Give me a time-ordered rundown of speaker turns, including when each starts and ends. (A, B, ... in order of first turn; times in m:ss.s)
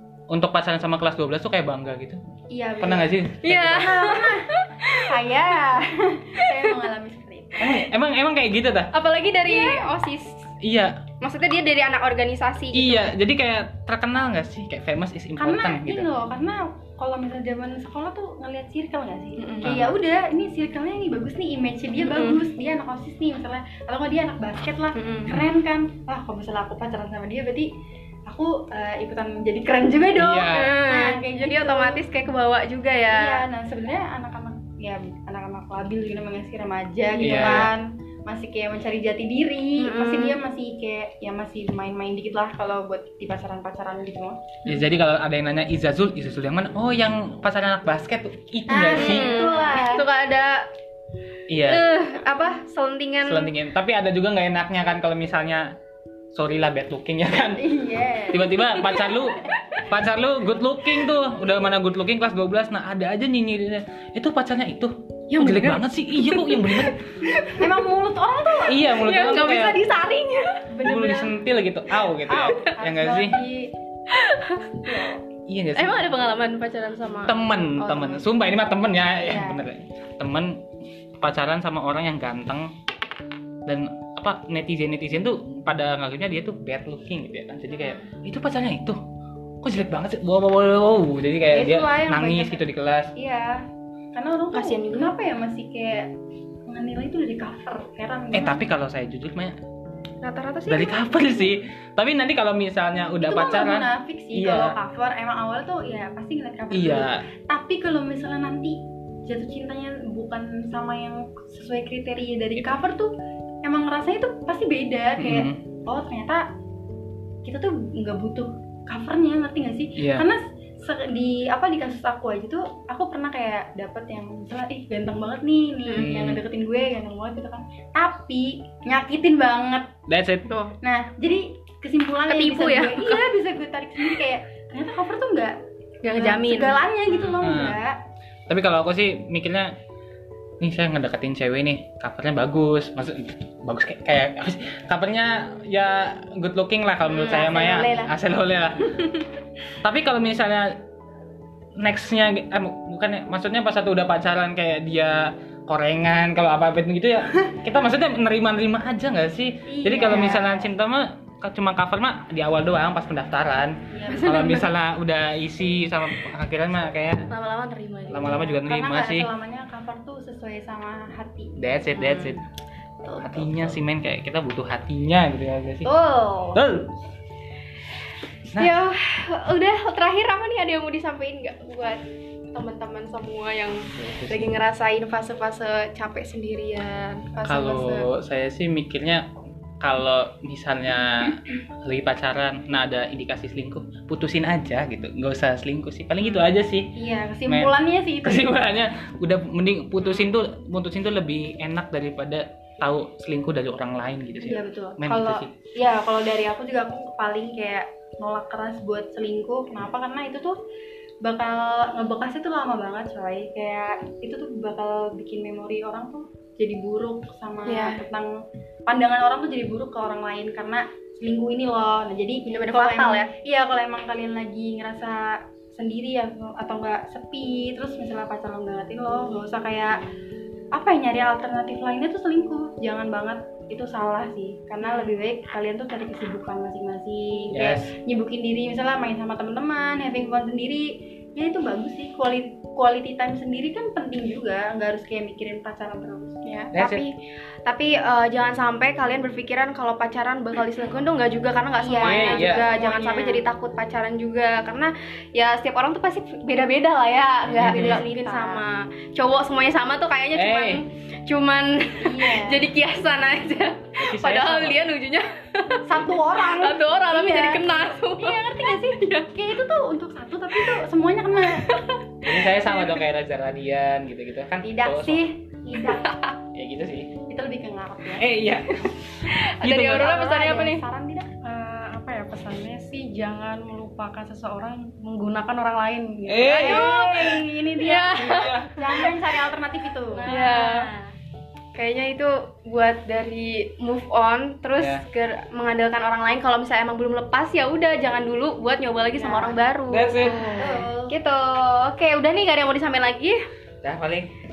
0:00.3-0:02.2 A
0:02.5-0:07.8 B
0:02.8-0:03.9 A
0:03.4-0:05.2 C
0:06.4-0:06.7 C
0:07.6-0:08.9 A
0:08.9-0:10.5 C
0:09.5-0:09.9 B
0:10.6-0:11.0 A
0:11.2-0:13.1 C
0:12.7-0:16.1 A
0:15.4-0:27.7 B
0:19.4-0:19.8 C
0:19.6-0:19.9 A
0:22.0-0:22.4 C
0:25.0-0:25.4 C
0:28.2-0:32.0 B
0:30.2-0:30.8 A
0:30.5-0:33.4 C
0:33.1-0:44.6 B
0:37.2-0:37.6 C
0:37.2-0:37.7 A
0:39.8-0:40.4 C
0:44.6-0:49.4 A
0:48.7-0:50.0 B
0:48.9-0:50.7 C
0:51.5-0:51.9 A
0:51.6-0:53.5 C
0:53.2-0:55.7 A
0:56.3-0:57.8 A
0:57.6-0:59.0 B
0:58.3-1:07.0 A
1:05.3-1:07.8 C
1:07.5-1:09.0 B
1:08.6-1:09.8 A
1:08.8-1:10.6 C
1:10.7-1:11.4 B
1:10.8-1:13.4 A
1:12.2-1:13.7 B
1:14.1-1:14.8 C
1:14.8-1:15.2 B
1:15.5-1:16.2 A
1:15.7-1:18.2 C
1:17.2-1:20.6 A
1:19.2-1:19.6 B
1:21.2-1:22.7 A
1:23.6-1:29.0 A
1:27.8-1:28.1 C
1:29.6-1:33.1 A
1:31.5-1:32.6 B
1:33.1-1:36.1 B
1:34.5-1:35.1 C
1:36.7-1:38.6 B
1:38.3-1:39.6 A
1:40.2-1:41.3 C
1:40.7-1:44.8 A
1:43.2-1:53.1 B
1:46.7-1:47.2 A
1:53.6-1:56.4 B
1:55.2-1:55.6 A
1:57.4-2:09.9 B
2:00.0-2:00.2 A
2:06.0-2:06.4 A
2:10.1-2:10.5 A
2:10.5-2:10.7 C
2:10.8-2:15.6 B
2:12.3-2:13.3 C
2:16.0-2:17.4 C
2:16.1-2:18.0 B
2:17.4-2:17.8 A
2:18.5-2:19.7 A
2:20.6-2:29.0 A
2:27.1-2:28.1 C
2:29.8-2:30.8 A
2:31.8-2:47.3 A
2:39.7-2:40.7 B
2:43.9-2:44.5 B
2:44.1-2:44.7 C
2:47.3-2:48.5 C
2:48.1-2:49.3 A
2:48.6-2:51.7 B
2:51.6-2:52.4 A
2:51.9-2:52.4 C
2:53.1-2:53.5 C
2:53.2-2:55.9 A
2:55.8-2:56.6 C
2:56.5-2:56.9 A
2:58.5-2:58.8 A
2:58.6-3:02.0 C
3:02.5-3:08.0 C
3:04.0-3:04.5 A
3:07.4-3:09.3 A
3:09.8-3:16.9 A
3:16.9-3:18.6 B
3:17.4-3:25.5 A
3:24.4-3:30.6 B
3:31.2-3:50.0 B
3:37.7-3:38.0 C
3:42.5-3:43.3 C
3:50.7-4:06.4 B
3:54.8-3:55.1 C
3:57.5-3:57.9 A
4:06.4-4:29.3 C
4:06.7-4:07.1 A
4:11.8-4:13.4 B
4:12.0-4:12.6 A
4:17.4-4:18.0 A
4:17.6-4:18.6 B
4:20.3-4:20.8 A
4:22.0-4:22.7 B
4:24.0-4:24.8 A
4:25.8-4:27.6 B
4:28.2-4:31.8 B
4:31.6-4:32.0 C
4:32.2-4:35.3 A
4:34.6-4:36.2 B
4:35.8-4:36.3 C
4:36.5-4:37.1 A
4:37.3-4:38.3 B
4:38.2-4:40.1 A
4:39.2-4:40.8 C
4:39.7-4:41.4 B
4:41.4-4:46.9 D
4:46.2-4:47.4 A
4:46.5-4:50.9 B
4:46.6-4:49.1 C
4:48.2-4:48.8 A
4:50.2-4:51.1 C
4:51.7-5:03.4 C
4:54.8-4:55.0 A
4:59.2-4:59.6 B
4:59.9-5:00.5 A
5:00.5-5:01.1 B
5:03.8-5:04.3 A